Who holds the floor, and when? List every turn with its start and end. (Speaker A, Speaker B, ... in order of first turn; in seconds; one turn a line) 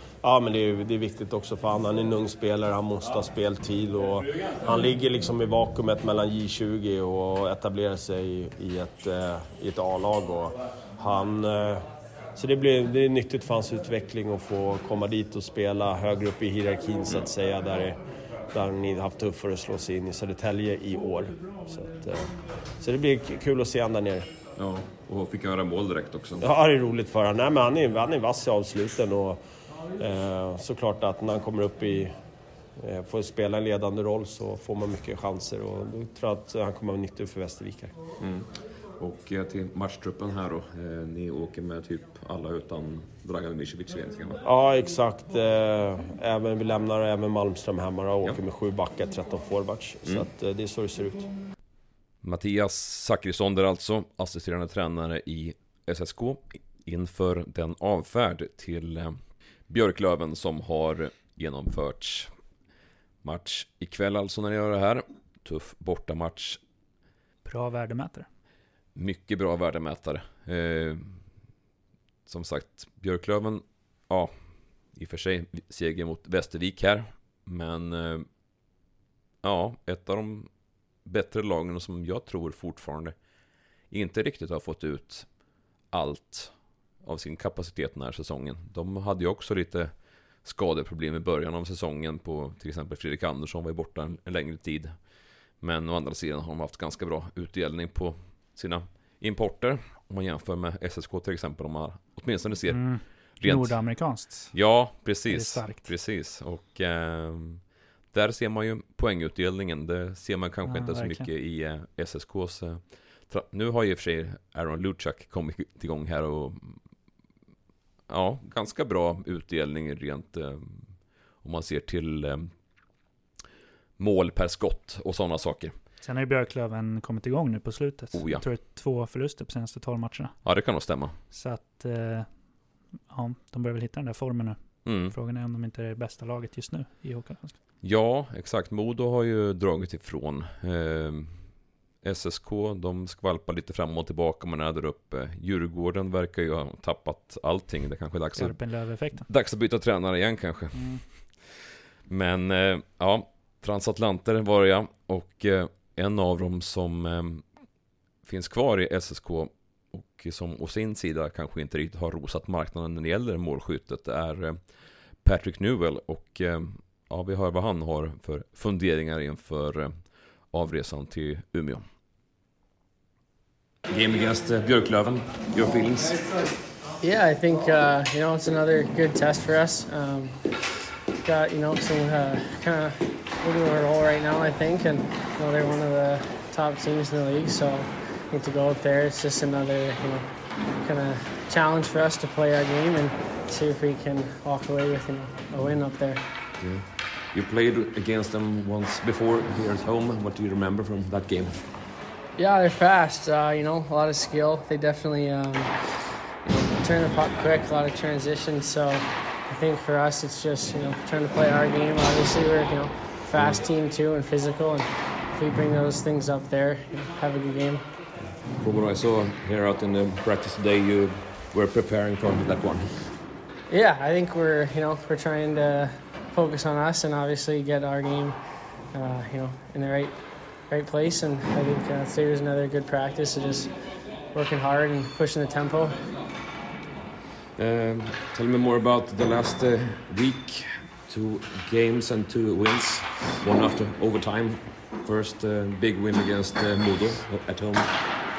Speaker A: 0.2-11.8
Speaker A: 12.4-18.0
Speaker A: 18.5-22.3
Speaker A: 22.8-24.3
Speaker B: 24.6-26.5
Speaker A: 26.4-29.4
Speaker A: 30.0-32.1
Speaker A: 32.8-37.9
Speaker B: 38.2-44.4
Speaker A: 44.5-51.3
Speaker B: 52.2-62.3
Speaker B: 63.2-66.6
Speaker C: 67.5-68.3
Speaker B: 69.0-71.2
Speaker B: 72.3-74.3
Speaker B: 74.9-78.3
Speaker B: 79.4-80.5
Speaker B: 81.0-83.2
Speaker B: 83.9-85.3
Speaker B: 85.9-89.9
Speaker B: 90.4-94.9
Speaker B: 95.6-103.8
Speaker C: 102.7-104.5
Speaker B: 104.5-116.8
Speaker C: 105.3-105.9
Speaker C: 110.7-111.3
Speaker B: 118.1-122.5
Speaker B: 124.0-125.8
Speaker C: 126.0-130.3
Speaker B: 128.1-128.4
Speaker B: 130.4-131.2
Speaker C: 131.3-132.3
Speaker C: 133.1-137.6
Speaker B: 134.8-135.2
Speaker B: 137.8-141.4
Speaker B: 142.0-148.6
Speaker C: 148.3-149.3
Speaker B: 149.2-157.5
Speaker C: 150.7-151.0
Speaker B: 158.2-164.6
Speaker B: 165.2-171.8
Speaker B: 173.9-176.2
Speaker D: 177.0-180.4
Speaker D: 181.2-196.2
Speaker B: 196.6-201.7
Speaker D: 202.4-217.8
Speaker B: 213.4-213.6
Speaker B: 218.2-223.0
Speaker D: 223.7-233.7
Speaker D: 234.3-236.0
Speaker B: 237.6-247.9